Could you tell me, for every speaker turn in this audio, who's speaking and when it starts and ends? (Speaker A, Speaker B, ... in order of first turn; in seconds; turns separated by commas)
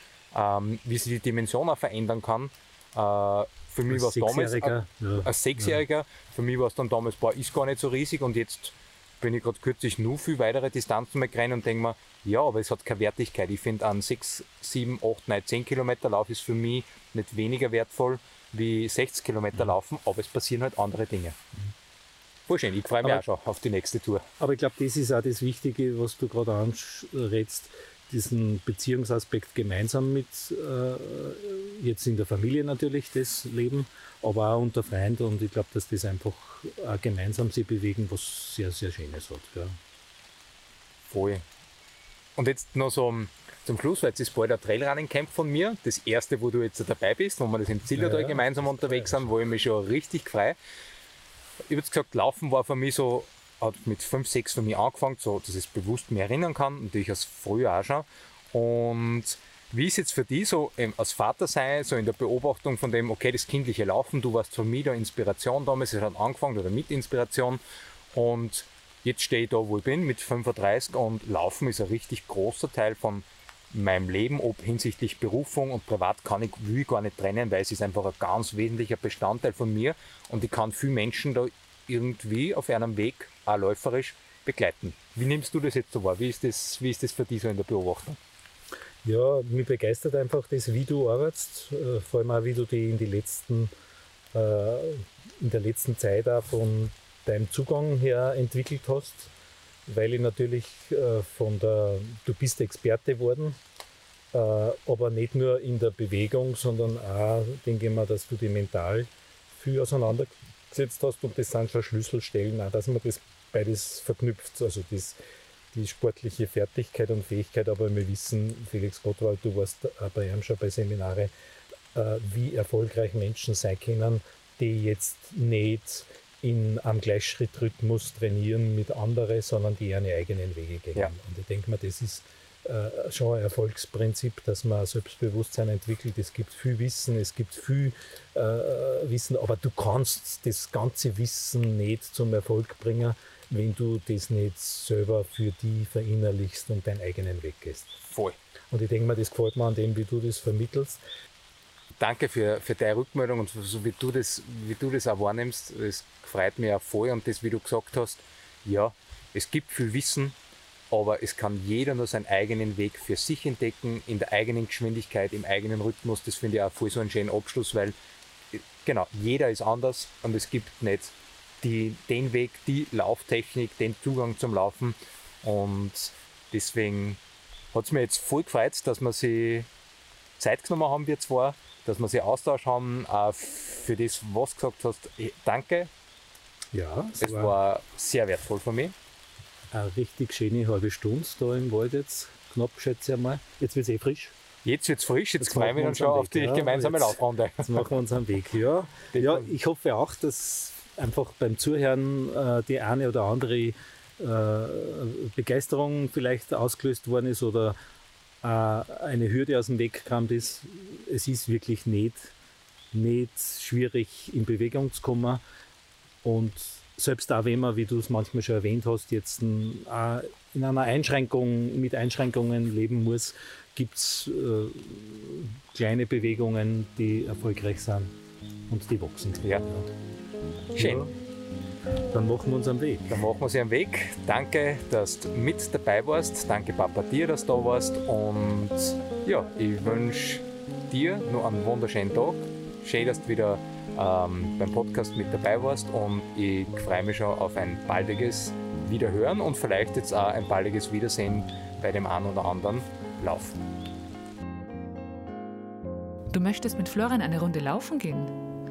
Speaker A: 0.3-21.4, Speaker B: 3.9-5.8, Speaker A: 22.5-24.2, Speaker B: 24.4-39.8, Speaker A: 41.1-41.4, Speaker A: 42.4-50.5, Speaker B: 47.9-49.3, Speaker A: 51.7-67.6, Speaker A: 68.1-88.2, Speaker B: 89.0-93.7, Speaker B: 94.3-99.3, Speaker B: 99.8-103.6, Speaker B: 104.3-115.2, Speaker B: 115.7-121.3, Speaker B: 121.9-148.0, Speaker A: 148.1-148.4, Speaker B: 148.7-151.0, Speaker A: 152.0-160.3, Speaker A: 160.9-167.9, Speaker A: 168.5-177.2, Speaker A: 177.7-179.7, Speaker A: 180.4-185.9, Speaker B: 186.7-187.6, Speaker A: 187.2-188.9, Speaker B: 189.7-194.3, Speaker A: 194.6-197.8, Speaker B: 195.4-207.8, Speaker A: 199.1-199.5, Speaker B: 208.4-212.3, Speaker B: 212.9-215.4, Speaker B: 216.2-228.1, Speaker B: 228.7-229.9, Speaker B: 230.8-231.1, Speaker A: 230.8-231.0, Speaker B: 232.1-233.1, Speaker A: 233.1-253.6, Speaker C: 256.3-258.3